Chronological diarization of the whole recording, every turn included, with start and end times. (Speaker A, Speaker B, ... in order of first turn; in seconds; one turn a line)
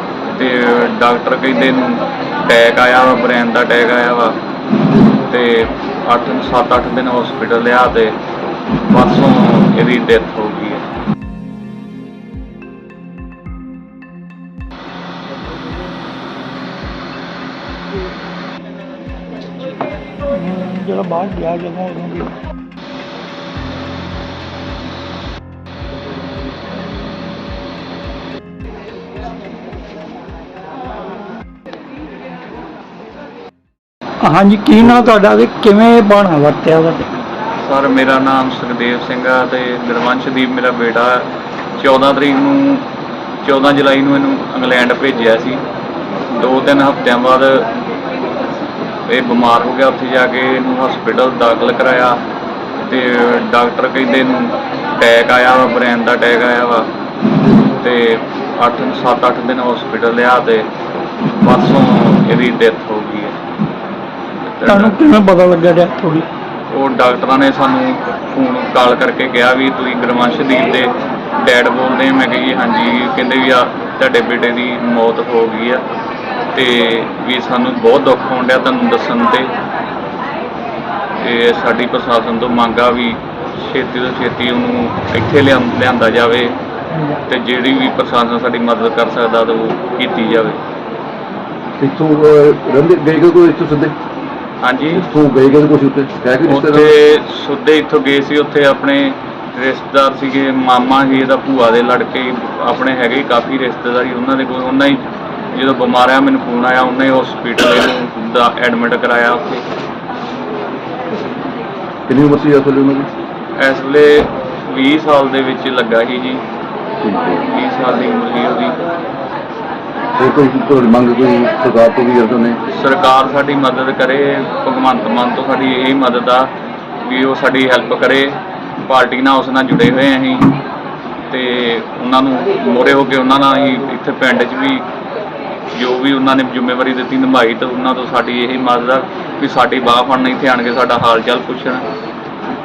Speaker A: 0.3-4.4
Speaker A: 5.2-8.2
Speaker A: 8.9-10.8
Speaker B: 20.3-22.3
Speaker B: 34.2-37.1
Speaker A: 37.6-42.9
Speaker A: 43.4-45.6
Speaker A: 46.3-47.7
Speaker A: 49.1-52.2
Speaker A: 52.8-56.9
Speaker A: 57.6-60.7
Speaker A: 61.4-63.4
Speaker A: 64.4-65.1
Speaker B: 64.7-66.3
Speaker A: 66.7-75.8
Speaker A: 76.5-79.5
Speaker A: 81.2-86.6
Speaker A: 87.2-90.6
Speaker C: 91.8-94.0
Speaker A: 94.6-95.1
Speaker C: 94.9-96.9
Speaker A: 96.5-109.6
Speaker C: 112.1-113.1
Speaker A: 113.6-116.4
Speaker C: 117.0-117.4
Speaker A: 117.4-118.8
Speaker C: 120.2-122.6
Speaker A: 122.7-130.6
Speaker A: 131.3-134.8
Speaker A: 135.7-141.8